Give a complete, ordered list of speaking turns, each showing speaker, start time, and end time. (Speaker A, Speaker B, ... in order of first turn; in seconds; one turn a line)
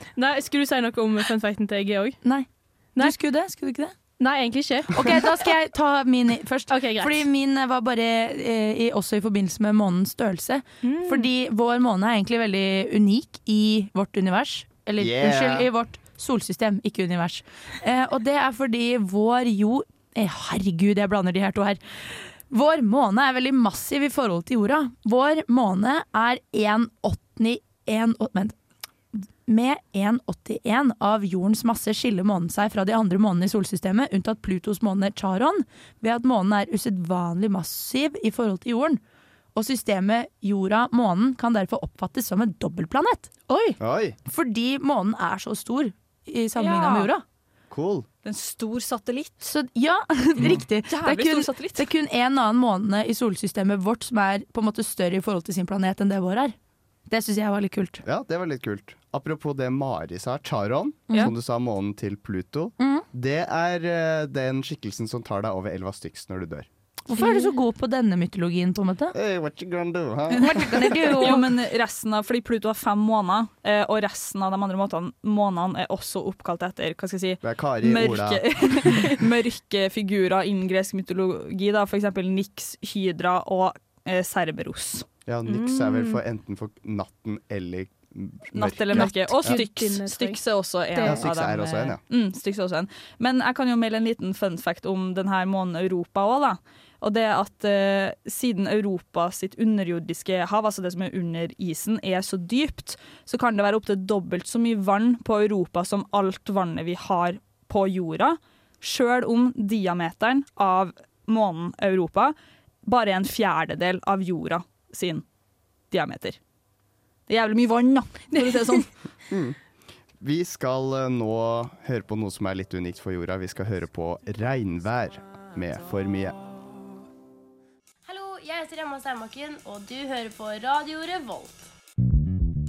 Speaker A: 0.1-2.2
Speaker B: 2.2-4.2
Speaker A: 4.2-5.4
Speaker B: 4.9-28.6
Speaker A: 6.7-7.2
Speaker A: 10.8-11.3
Speaker C: 15.0-15.7
Speaker B: 29.1-39.0
Speaker B: 39.5-43.3
Speaker A: 43.5-43.8
Speaker C: 43.8-44.2
Speaker B: 44.2-47.2
Speaker D: 46.6-47.1
Speaker C: 47.7-48.1
Speaker D: 48.2-49.3
Speaker B: 49.4-56.5
Speaker D: 50.5-51.9
Speaker B: 57.1-58.0
Speaker C: 58.0-66.7
Speaker B: 62.8-63.0
Speaker B: 67.1-69.1
Speaker C: 69.1-71.3
Speaker B: 70.4-71.4
Speaker D: 71.2-85.0
Speaker C: 77.4-79.1
Speaker C: 85.2-89.6
Speaker A: 85.5-86.2
Speaker D: 88.5-112.3
Speaker A: 88.9-90.4
Speaker A: 90.9-91.2
Speaker C: 91.0-92.0
Speaker D: 112.8-115.2
Speaker D: 115.9-116.4
Speaker D: 117.3-118.9
Speaker C: 119.3-119.6
Speaker C: 120.2-126.3
Speaker E: 128.1-131.7